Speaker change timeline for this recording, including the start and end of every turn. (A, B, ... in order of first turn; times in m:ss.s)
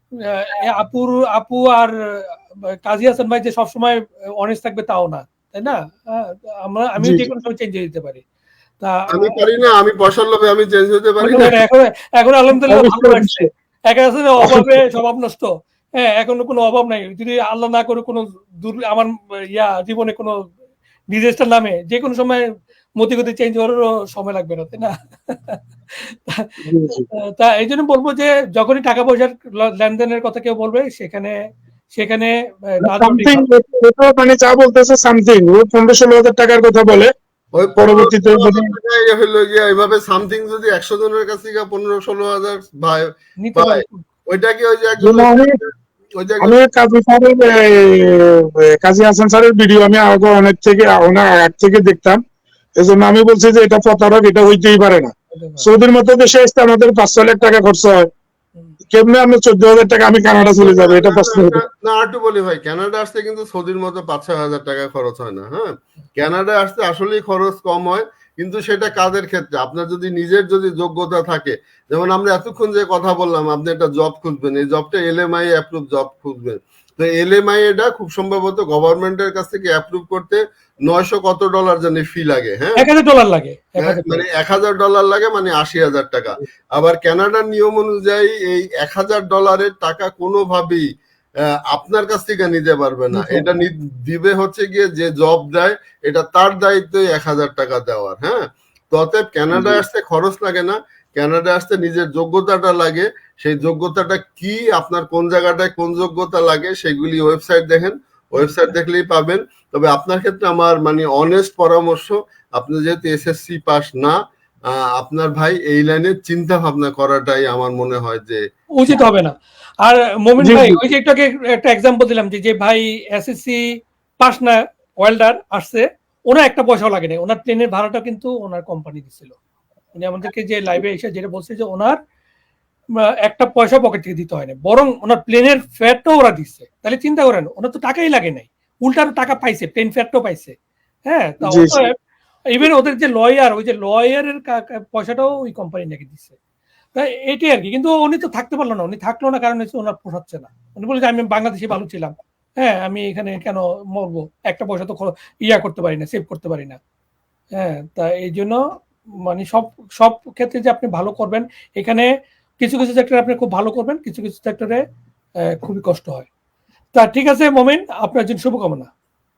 0:00.2-0:08.2 A
0:07.0-0:07.3 B
0:08.8-0:09.4 A
0:09.1-0:11.6 C
0:11.2-0:20.3 A
0:12.6-0:13.5 B
0:14.4-0:14.8 B
0:21.1-0:22.4 A
0:23.0-0:26.5 A
0:26.6-0:27.1 B
0:27.2-0:31.4 A
0:31.9-0:33.4 A
0:32.9-0:37.1 B
0:37.5-0:46.6 C
0:37.8-0:38.7 B
0:43.4-0:44.0 A
0:45.0-0:45.6 B
0:46.4-0:52.2 B
0:52.8-0:58.1 B
0:55.3-0:55.7 A
0:58.9-1:01.6 B
1:00.6-1:22.9 C
1:22.8-1:24.2 A
1:23.8-1:30.8 C
1:31.7-1:54.2 C
1:39.5-1:39.8 B
1:54.7-1:58.4 C
1:58.8-2:03.6 A
2:00.4-2:00.8 B
2:04.2-2:09.3 A
2:09.9-2:12.0 A
2:13.2-2:20.6 A
2:21.1-2:21.9 A
2:21.5-2:21.8 B
2:22.5-2:26.3 A
2:27.0-2:36.8 A
2:37.6-2:38.6 A
2:39.2-2:42.1 A
2:42.6-2:44.8 A
2:45.5-2:46.3 A
2:46.9-2:48.9 A